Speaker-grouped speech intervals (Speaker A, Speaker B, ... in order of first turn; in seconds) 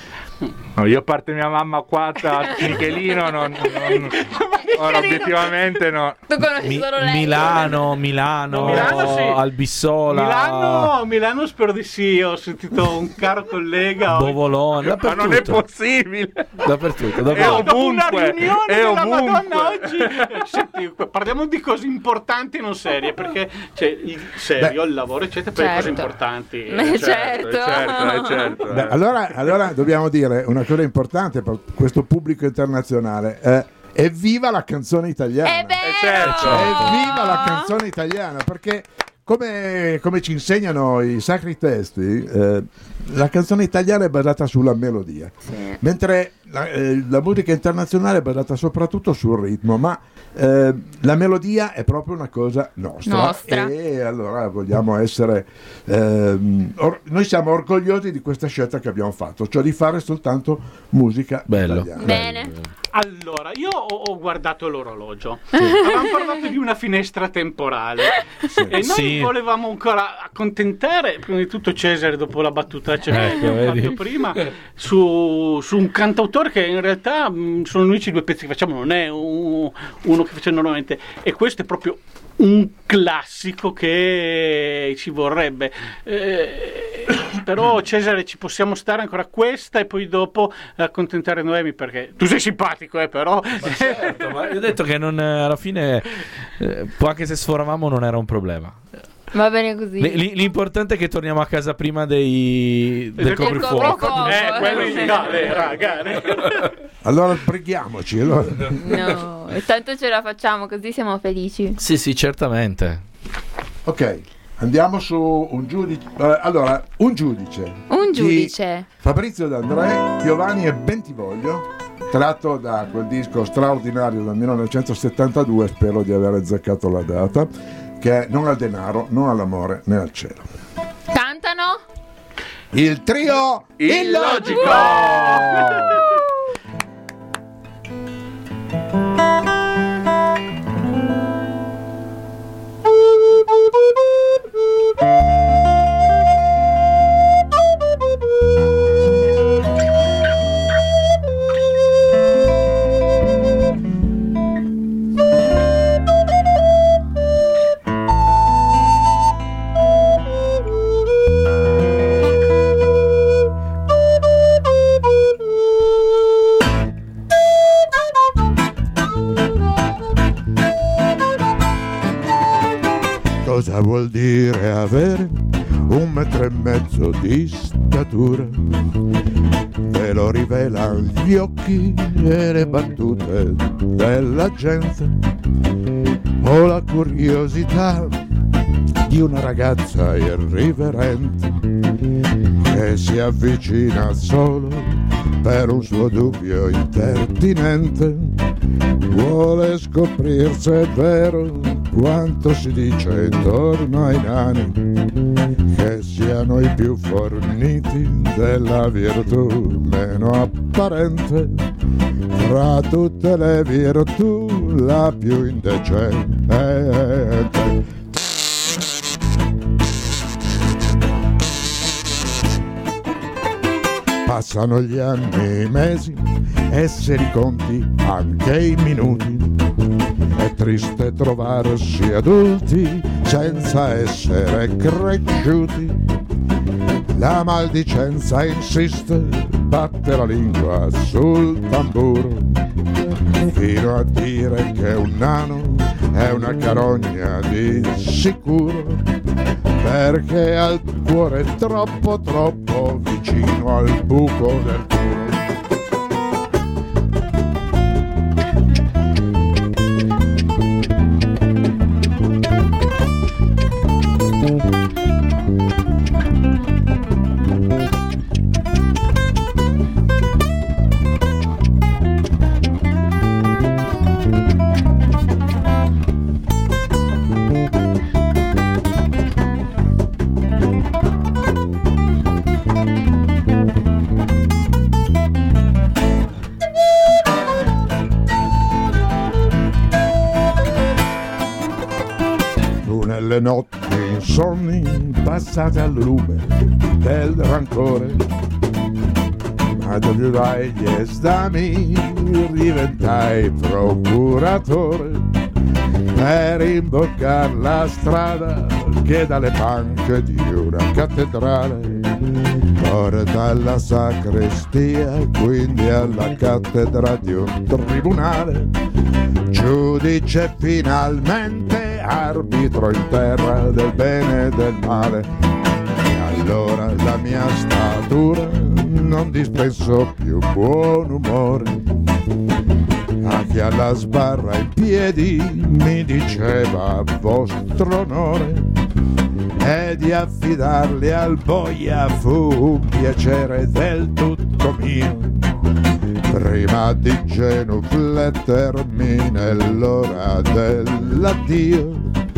Speaker A: 0.8-6.2, 8.6-9.2, 14.8-16.6, 17.2-20.4, 26.9-29.0, 35.8-36.8, 133.8-135.8
Speaker B: 3.6-5.8, 8.5-9.4, 10.1-14.4, 17.3-27.1, 62.9-94.3, 103.2-106.7
Speaker C: 6.3-7.9, 25.6-26.1, 26.7-28.6, 35.4-37.7, 45.5-45.8, 53.0-53.7, 62.0-62.5, 99.3-100.2, 103.3-105.3, 108.7-111.8, 117.9-118.9, 131.1-131.8, 134.4-135.3
Speaker D: 6.6-10.9, 14.1-15.6, 16.6-17.7, 36.2-36.9, 61.5-62.6, 68.7-69.3, 73.1-74.5, 93.6-98.8, 100.0-104.8, 111.8-113.0
Speaker E: 28.7-35.8, 36.3-62.5, 107.0-109.2, 113.8-130.4, 132.7-136.2, 173.4-179.0, 179.8-185.3, 186.4-188.2, 189.1-191.7, 192.6-198.5, 199.1-205.1, 205.7-211.7, 212.3-217.9, 224.2-229.8, 230.3-236.1, 237.1-242.7, 243.3-249.0, 249.8-255.4, 292.8-298.3, 299.7-305.4, 306.1-318.8, 319.5-325.3, 325.9-331.9, 333.2-338.8, 339.6-345.6, 346.3-352.2